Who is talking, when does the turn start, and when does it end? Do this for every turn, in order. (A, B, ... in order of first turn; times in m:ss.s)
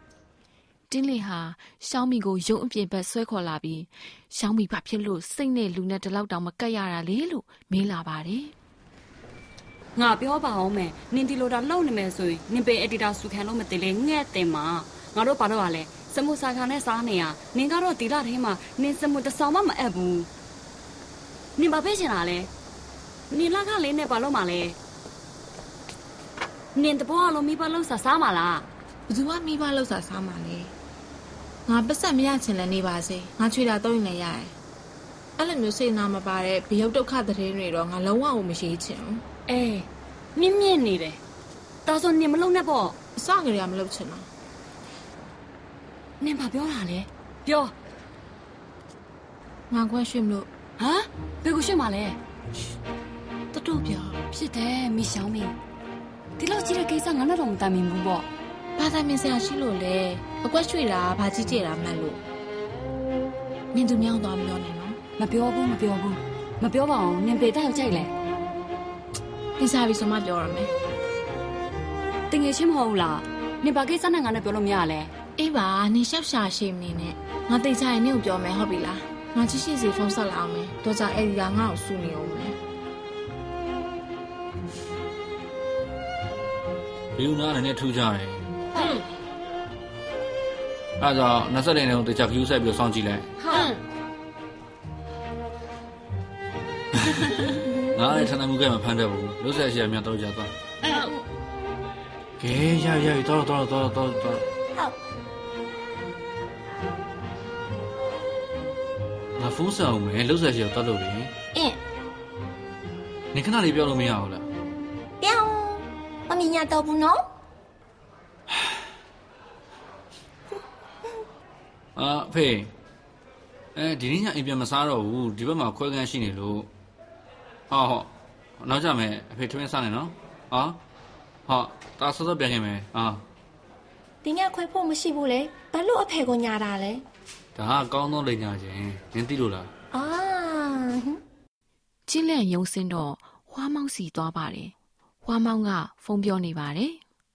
0:00.9-0:08.5 A
0:10.0-0:20.3 B
0:21.6-0:22.5 B
0:23.3-0:24.8 B
0:26.8-0:28.7 B
0:29.1-0:30.7 C
0:31.7-0:34.5 C
0:35.4-0:39.2 C
0:39.5-0:41.2 B
0:41.8-0:43.0 B
0:43.2-0:44.3 C
0:46.2-0:47.7 B
0:49.7-0:50.5 C
0:50.8-0:52.2 B
0:53.5-0:54.2 C
0:54.3-0:55.6 B
0:56.4-0:58.3 B
0:58.8-1:02.2 C
1:03.7-1:05.0 C
1:05.2-1:08.1 B
1:09.6-1:10.7 C
1:12.3-1:15.1 B
1:15.4-1:22.6 C
1:27.2-1:28.5 D
1:31.0-1:33.3 D
1:33.5-1:33.8 E
1:37.0-1:40.5 D
1:40.8-1:41.2 E
1:42.4-1:44.4 D
1:49.4-1:51.3 D
1:53.3-1:54.5 D
1:55.2-1:57.2 E
2:02.0-2:02.7 D
2:03.8-2:06.7 D
2:07.7-2:10.8 D
2:11.5-2:13.2 D
2:14.2-2:17.0 E
2:17.6-2:19.7 D
2:19.9-2:21.2 E
2:22.1-2:27.0 A